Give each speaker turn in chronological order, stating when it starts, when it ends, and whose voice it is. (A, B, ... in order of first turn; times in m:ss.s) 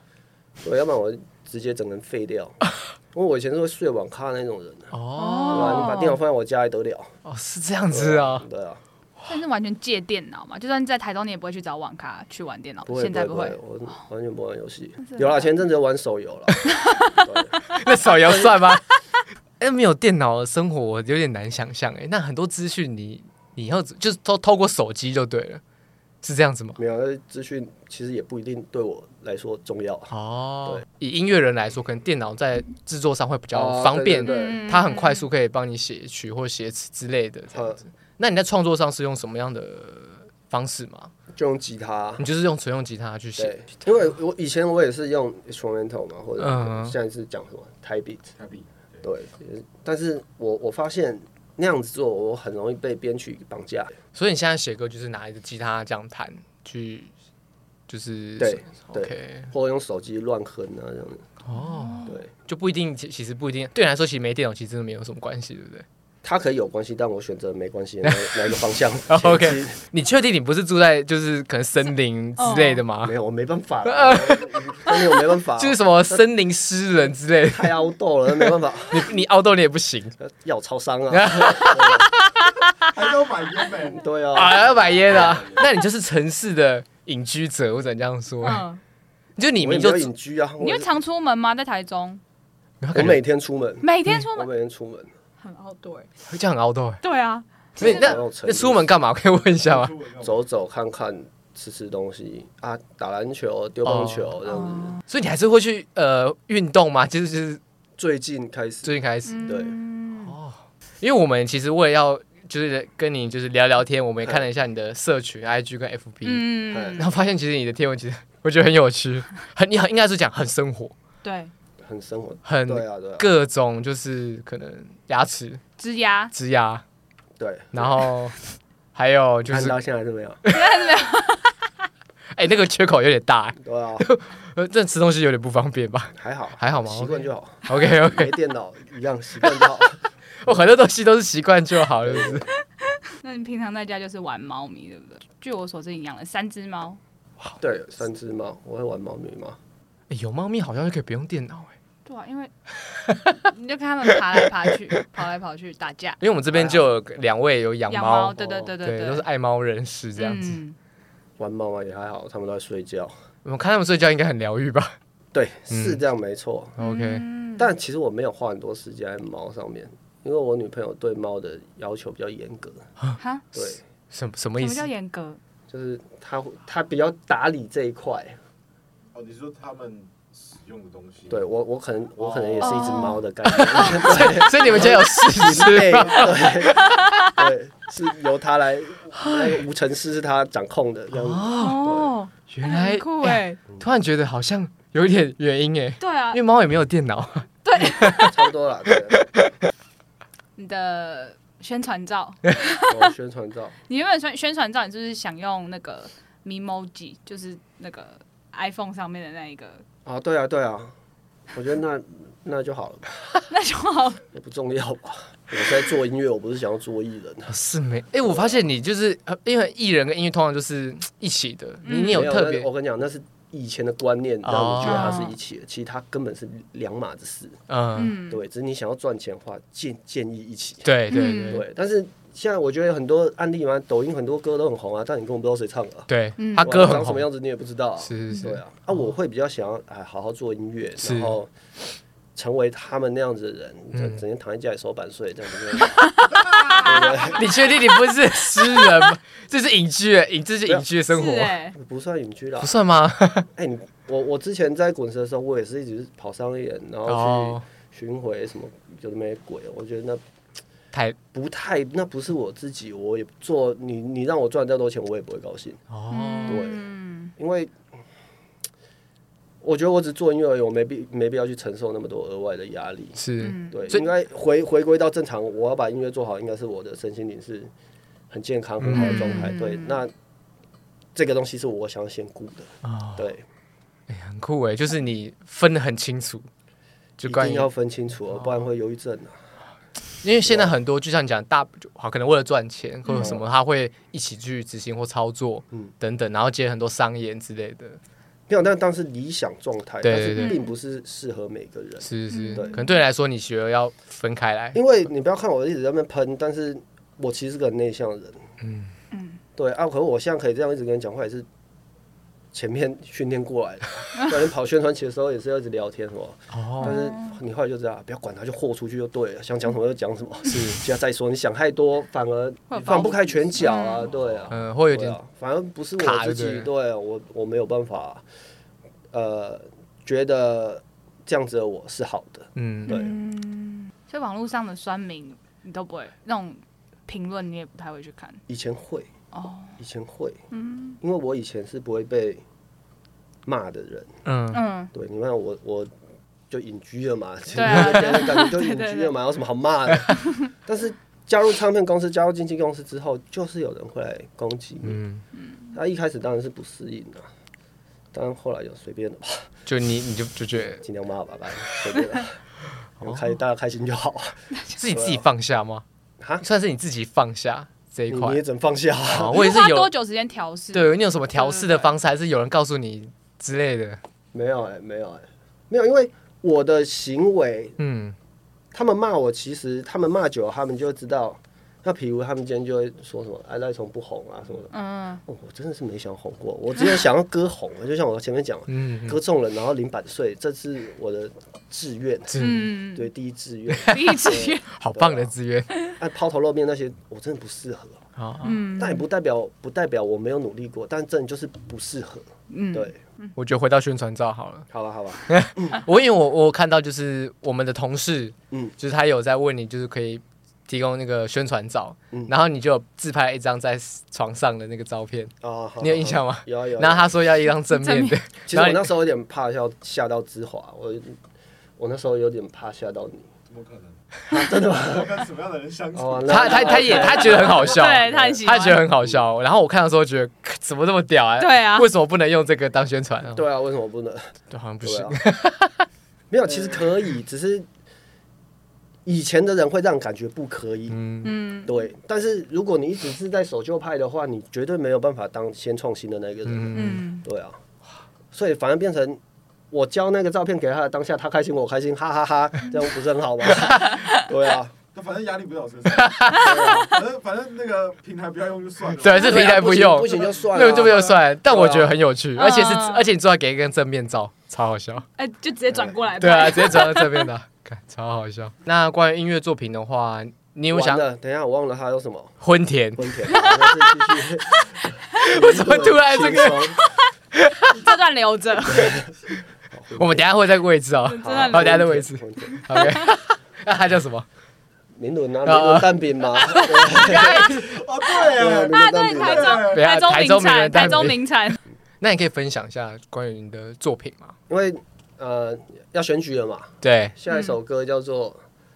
0:00.6-0:02.6 A
0:03.1-0:04.9 A
0:04.9-0:06.0 B
0:05.2-0:06.2 C
0:05.5-0:07.1 A
0:07.2-0:08.4 B
0:07.9-0:08.8 A
0:09.3-0:13.6 C
0:12.9-0:16.6 A
0:15.0-0:15.5 C
0:16.7-0:18.5 C
0:17.2-0:17.5 A
0:17.6-0:18.8 B
0:19.6-0:25.6 B
0:26.2-0:26.8 B
0:26.8-0:30.1 A
0:30.1-0:41.1 B
0:33.5-0:34.6 A
0:34.2-0:35.3 C
0:37.5-0:37.8 A
0:41.3-0:42.2 A
0:42.2-0:43.7 B
0:43.4-0:48.3 A
0:46.4-0:47.0 B
0:48.4-0:49.0 D
0:49.0-0:53.9 A
0:54.1-0:57.1 B
0:57.9-0:59.5 B
0:58.4-1:01.2 A
1:01.4-1:05.8 B
1:01.5-1:02.2 C
1:06.2-1:09.8 A
1:08.0-1:08.6 B
1:09.1-1:13.1 B
1:12.4-1:12.8 C
1:13.0-1:16.2 A
1:13.8-1:17.7 B
1:17.5-1:19.1 A
1:18.4-1:20.2 B
1:20.2-1:22.1 A
1:21.1-1:22.9 B
1:22.8-1:25.7 D
1:23.9-1:24.6 A
1:24.3-1:28.7 B
1:28.4-1:28.8 C
1:29.4-1:30.1 B
1:29.6-1:30.9 A
1:30.6-1:32.2 C
1:32.8-1:33.2 B
1:32.9-1:35.1 A
1:33.8-1:34.5 C
1:35.4-1:36.1 C
1:36.3-1:37.0 B
1:37.0-1:38.1 C
1:37.8-1:39.9 B
1:37.8-1:38.9 A
1:39.5-1:40.4 D
1:40.2-1:45.0 A
1:43.8-1:44.4 B
1:44.4-1:45.0 C
1:45.1-1:47.6 B
1:48.0-1:48.9 A
1:48.8-1:49.5 B
1:49.2-1:50.3 C
1:49.4-1:49.8 A
1:50.2-2:00.9 B
1:56.2-1:57.1 C
1:56.7-1:57.0 A
2:01.2-2:01.5 C
2:01.8-2:03.3 A
2:02.4-2:05.6 B
2:05.8-2:06.3 C
2:06.3-2:06.8 B
2:07.4-2:07.9 A
2:07.7-2:08.3 B
2:08.9-2:09.8 B
2:09.5-2:10.4 A
2:10.5-2:11.6 C
2:12.3-2:18.4 B
2:13.6-2:14.0 A
2:16.2-2:20.6 A
2:19.4-2:19.9 B
2:20.4-2:22.4 B
2:22.0-2:22.5 A
2:23.1-2:27.0 C
2:27.6-2:29.6 A
2:30.1-2:31.7 B
2:32.0-2:32.5 C
2:33.1-2:33.4 B
2:33.4-2:36.2 C
2:34.2-2:34.7 B
2:36.2-2:40.6 B
2:36.5-2:36.8 A
2:37.9-2:39.2 C
2:38.4-2:38.7 A
2:40.2-2:40.8 C
2:41.4-2:43.1 A
2:43.4-2:44.9 B
2:45.3-2:46.8 A
2:45.7-2:46.0 B
2:46.8-2:47.2 B
2:46.8-2:47.7 C
2:47.6-2:52.9 A
2:53.2-2:53.4 C
2:53.5-2:53.8 A
2:54.1-2:54.9 B
2:54.6-2:55.4 C
2:55.7-2:58.4 A
2:59.1-3:01.5 D
3:01.3-3:12.1 A
3:02.2-3:03.1 D
3:02.6-3:04.5 C
3:03.5-3:07.0 B
3:06.8-3:07.2 C
3:09.1-3:09.6 B
3:11.1-3:11.9 B
3:11.6-3:13.6 C
3:12.5-3:18.4 B
3:16.0-3:16.4 C
3:17.6-3:18.3 C
3:18.2-3:19.3 A
3:19.1-3:19.4 B
3:20.6-3:23.1 C
3:22.9-3:23.7 A
3:23.9-3:29.8 C
3:30.0-3:30.9 A
3:31.5-3:33.1 A
3:33.5-3:34.2 C
3:34.3-3:37.5 A
3:37.5-3:42.7 B
3:38.3-3:38.5 A
3:41.8-3:42.3 C
3:42.1-3:47.6 A
3:44.4-3:45.2 B
3:44.8-3:45.4 C
3:47.7-3:48.2 B
3:47.9-3:48.4 C
3:48.3-3:50.9 A
3:50.8-3:51.6 B
3:51.1-3:51.6 C
3:51.5-4:01.5 A
3:56.1-3:57.2 B
3:56.4-3:56.7 C
3:58.0-3:58.6 B
4:01.0-4:01.4 B
4:02.3-4:06.1 A
4:03.9-4:04.2 B
4:06.0-4:07.8 C
4:06.7-4:07.4 A
4:07.3-4:11.6 B
4:08.7-4:09.0 C
4:11.1-4:11.8 C
4:11.7-4:12.8 A
4:12.6-4:13.5 B
4:13.5-4:20.2 A
4:17.1-4:17.6 B
4:21.3-4:25.8 A
4:25.9-4:26.7 B
4:26.1-4:27.3 C
4:26.4-4:26.8 A
4:27.4-4:27.7 A
4:29.6-4:33.2 A
4:33.2-4:34.0 B
4:33.4-4:34.1 C
4:33.7-4:37.7 A
4:38.3-4:40.1 A
4:38.8-4:39.5 B
4:38.9-4:40.0 C
4:41.1-4:43.4 A
4:42.8-4:43.3 B
4:44.1-4:46.5 B
4:47.2-4:47.7 B
4:47.2-4:49.5 A
4:48.3-4:48.6 B
4:50.2-4:58.0 B
4:50.4-4:50.7 A
4:53.0-4:53.3 C
4:53.2-4:53.4 A
4:58.5-5:02.8 A
5:00.0-5:00.6 B
5:00.3-5:00.7 C
5:02.0-5:04.8 B
5:02.3-5:02.9 C
5:04.7-5:08.4 A
5:08.6-5:08.9 B
5:09.1-5:09.4 C
5:09.6-5:11.5 A
5:12.5-5:28.2 A
5:16.5-5:17.0 B
5:16.8-5:17.4 C
5:20.4-5:20.8 B
5:22.7-5:24.1 C
5:24.5-5:25.2 B
5:26.0-5:26.7 B
5:29.1-5:33.1 A
5:32.6-5:33.0 B
5:32.9-5:38.4 C
5:38.5-5:39.1 A
5:39.3-5:39.8 C
5:39.8-5:40.4 A
5:40.5-5:41.0 C
5:41.0-5:42.4 A
5:43.4-5:44.2 A
5:44.2-5:44.6 B
5:44.5-5:44.9 C
5:44.9-5:45.9 A
5:46.5-5:55.0 A
5:47.5-5:49.1 C
5:47.6-5:48.0 B
5:54.8-5:55.2 B
5:55.4-5:55.7 C
5:55.7-5:57.3 A
5:58.1-5:59.5 A
5:59.6-6:00.8 B
6:00.8-6:02.4 A
6:03.0-6:03.3 B
6:03.0-6:04.4 A
6:04.8-6:05.8 B
6:04.9-6:05.2 A
6:06.2-6:06.4 A
6:06.4-6:08.4 B
6:08.1-6:09.3 A
6:09.1-6:09.9 B
6:09.3-6:11.9 C
6:10.7-6:14.0 B
6:14.3-6:17.8 A
6:17.8-6:18.2 B
6:18.7-6:24.7 A
6:24.7-6:25.2 C
6:25.2-6:32.4 A
6:28.7-6:29.2 B
6:32.3-6:32.7 B
6:32.4-6:33.1 C
6:32.9-6:35.3 A
6:33.7-6:34.2 B
6:33.9-6:34.7 C
6:34.7-6:35.7 B
6:36.0-6:38.0 A
6:38.2-6:38.6 B
6:38.4-6:39.0 C
6:38.8-6:43.0 A
6:42.5-6:43.3 C
6:43.4-6:44.7 B
6:44.7-6:45.8 A
6:45.3-6:58.9 B
6:55.4-6:57.1 A
6:57.7-6:58.2 C
6:58.5-7:01.2 A
7:01.8-7:03.3 A
7:03.5-7:07.6 D
7:04.3-7:05.1 A
7:05.9-7:08.4 A
7:06.3-7:13.4 B
7:07.0-7:08.8 C
7:11.4-7:11.9 C
7:13.3-7:15.2 A
7:14.5-7:15.9 B
7:16.3-7:17.7 A
7:19.0-7:21.0 A
7:20.9-7:21.3 B
7:21.2-7:21.7 C
7:21.6-7:27.6 A
7:26.4-7:27.0 B
7:26.7-7:27.2 C
7:28.3-7:29.2 A
7:29.7-7:34.7 A
7:33.5-7:34.1 B
7:34.9-7:41.1 D
7:35.9-7:36.6 B
7:36.3-7:37.0 A
7:39.0-7:45.1 B
7:39.2-7:41.9 A
7:42.4-7:43.0 C
7:45.2-7:47.3 C
7:45.7-7:46.0 A
7:46.2-7:51.0 B
7:50.7-7:52.4 A
7:52.4-7:53.5 B
7:53.0-7:56.8 A
7:53.3-7:53.8 C
7:55.2-7:56.8 B
7:57.3-7:57.8 B
7:57.7-7:59.0 C
7:58.6-7:59.1 A
7:59.7-8:00.3 A
8:00.0-8:04.3 B
8:01.0-8:01.8 C
8:01.2-8:02.9 A
8:02.6-8:03.2 C
8:05.0-8:07.8 A
8:05.4-8:06.0 B
8:06.4-8:11.6 C
8:07.0-8:09.9 D
8:08.3-8:09.6 A
8:09.7-8:11.2 B
8:12.0-8:14.3 B
8:14.5-8:18.4 A
8:16.8-8:17.2 B
8:17.3-8:17.5 C